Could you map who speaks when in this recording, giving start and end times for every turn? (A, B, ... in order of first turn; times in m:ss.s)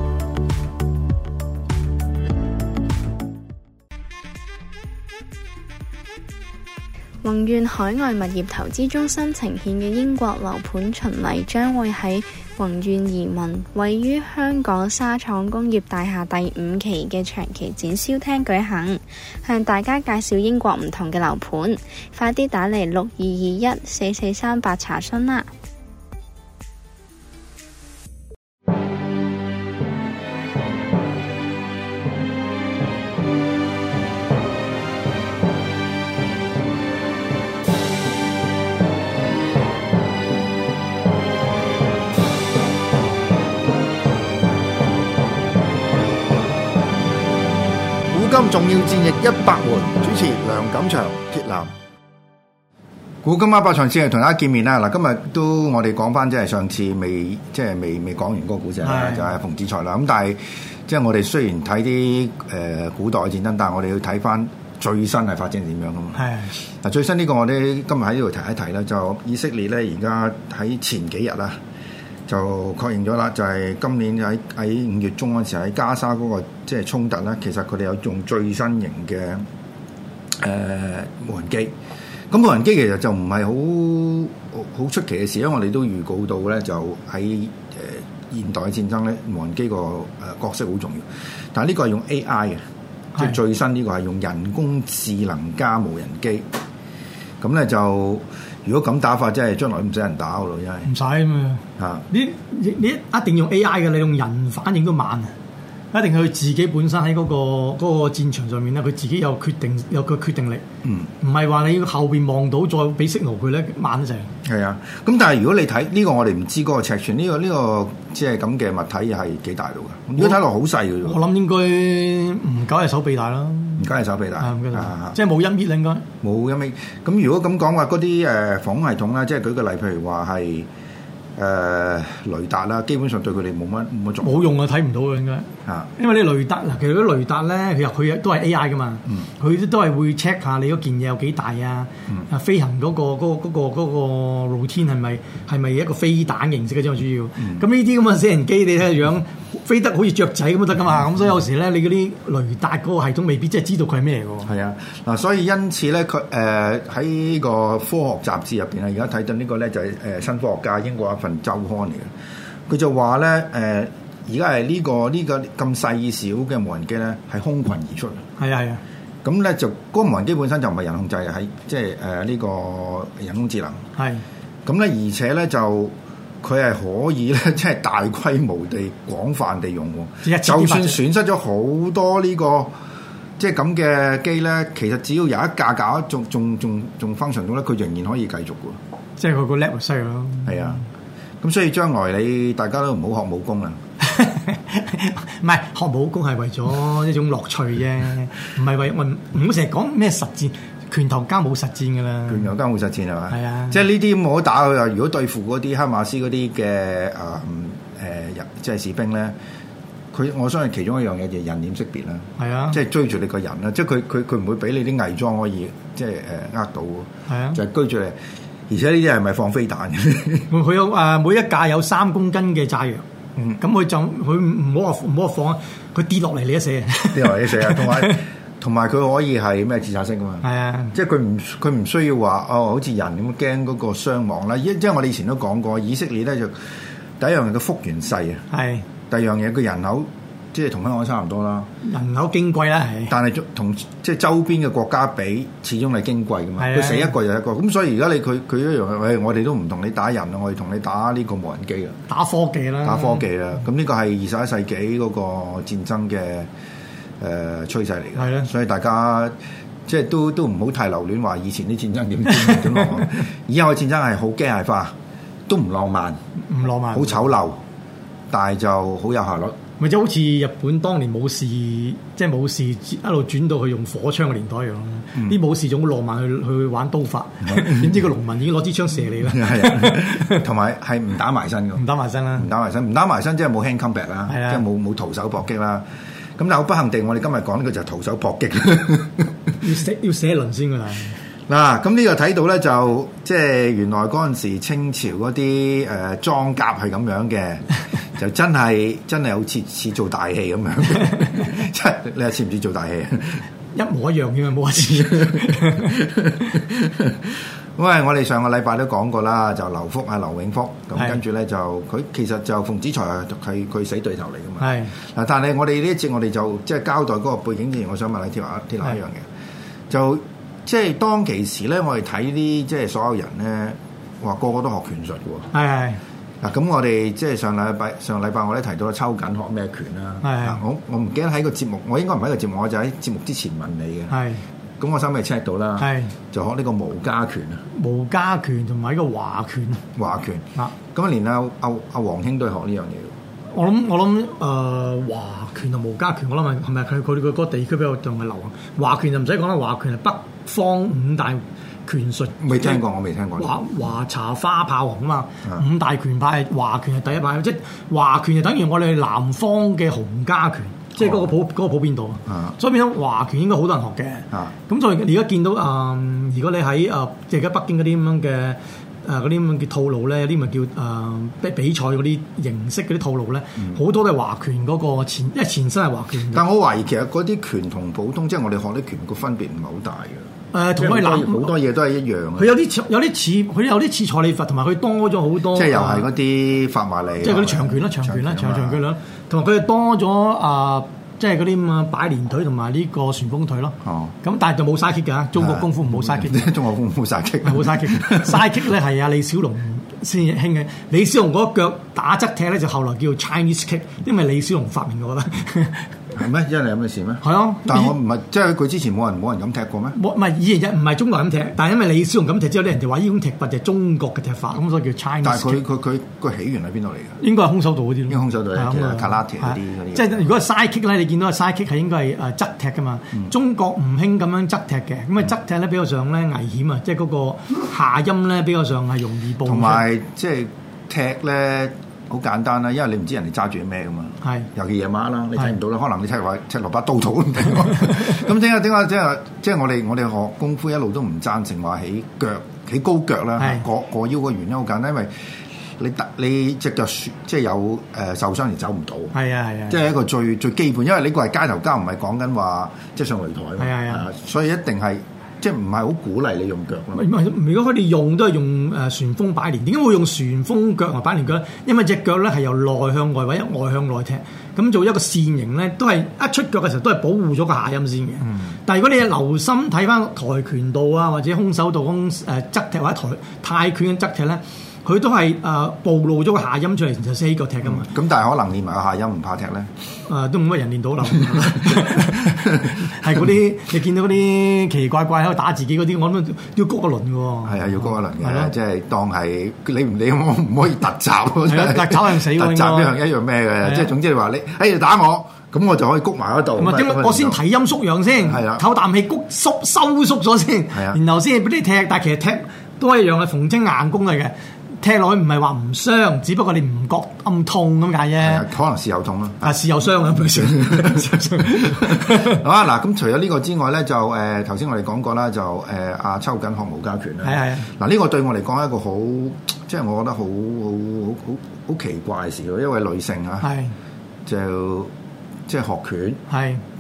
0:07.2-0:25.5 A
0:48.1-0:51.7 B
0:53.2-1:11.6 B
0:58.8-0:59.3 C
1:06.2-1:06.5 C
1:12.3-1:19.4 B
1:20.4-1:21.7 B
1:22.3-1:32.6 B
1:33.2-1:36.4 B
1:37.4-1:40.9 B
1:40.8-1:45.3 C
1:41.8-1:42.1 B
1:45.9-1:50.6 C
1:50.8-1:51.1 B
1:51.2-1:54.3 C
1:54.4-2:01.2 B
2:01.0-2:06.0 C
2:03.8-2:05.2 B
2:06.2-2:10.7 B
2:11.4-2:14.5 B
2:14.2-2:34.5 C
2:15.7-2:15.9 B
2:34.4-2:42.1 B
2:42.7-2:48.2 B
2:48.4-2:48.8 C
2:49.2-2:53.8 B
2:54.0-2:54.2 C
2:54.7-3:02.7 B
3:00.2-3:01.0 C
3:03.4-3:08.8 B
3:09.2-3:10.8 C
3:10.5-3:10.8 B
3:11.4-3:13.8 B
3:14.0-3:22.5 C
3:22.3-3:29.4 B
3:23.3-3:23.8 C
3:30.1-3:38.2 B
3:32.4-3:32.8 C
3:37.3-3:37.6 C
3:38.7-3:40.5 B
3:40.5-3:43.0 C
3:43.6-3:48.2 C
3:47.1-3:58.4 B
3:50.4-3:51.0 C
3:58.5-3:58.9 C
3:59.1-4:01.7 B
4:01.8-4:03.1 C
4:03.1-4:12.0 B
4:06.6-4:07.2 C
4:12.1-4:13.3 C
4:12.8-4:16.5 B
4:17.2-4:19.4 B
4:18.2-4:18.5 C
4:19.9-4:24.9 B
4:25.5-4:26.2 B
4:26.5-4:27.3 C
4:26.9-4:27.6 B
4:28.3-4:29.6 B
4:29.8-4:40.4 C
4:37.5-4:38.0 B
4:39.2-4:41.8 B
4:41.8-4:42.5 C
4:42.4-4:45.8 B
4:44.3-4:44.6 C
4:46.4-4:49.3 B
4:49.6-4:51.2 C
4:51.5-5:03.4 B
5:03.7-5:06.0 C
5:04.7-5:19.2 B
5:14.6-5:14.9 C
5:19.9-5:25.5 B
5:25.5-5:26.0 C
5:26.4-5:34.2 B
5:30.2-5:30.6 C
5:34.1-5:34.4 C
5:34.8-5:37.6 B
5:35.8-5:36.2 C
5:37.7-5:39.8 C
5:40.0-5:43.1 B
5:43.5-5:52.8 C
5:52.4-5:53.7 B
5:53.4-6:16.4 C
6:01.0-6:01.3 B
6:02.3-6:02.6 B
6:16.3-6:22.6 B
6:20.5-6:21.6 C
6:22.4-6:26.1 C
6:25.5-6:28.8 B
6:27.2-6:36.5 C
6:33.8-6:34.2 B
6:35.4-6:38.5 B
6:37.4-6:45.9 C
6:46.1-6:50.0 B
6:47.2-6:48.0 C
6:49.9-6:55.6 C
6:55.2-6:57.2 B
6:57.2-7:09.9 C
6:58.1-7:00.4 B
7:09.4-7:25.1 B
7:14.2-7:14.5 C
7:23.4-7:23.6 C
7:25.8-7:29.2 B
7:29.1-7:29.8 C
7:29.7-7:37.1 B
7:33.6-7:34.0 C
7:36.9-7:57.9 C
7:57.6-7:59.7 B
8:00.1-8:08.5 C
8:07.4-8:17.4 B
8:11.4-8:12.9 C
8:13.6-8:13.9 C
8:16.6-8:28.5 C
8:18.2-8:18.6 B
8:20.7-8:21.0 B
8:28.2-8:43.5 B
8:29.4-8:32.4 C
8:37.2-8:37.7 C
8:43.4-8:43.7 C
8:44.3-8:44.9 B
8:45.5-8:46.2 B
8:46.3-8:46.6 C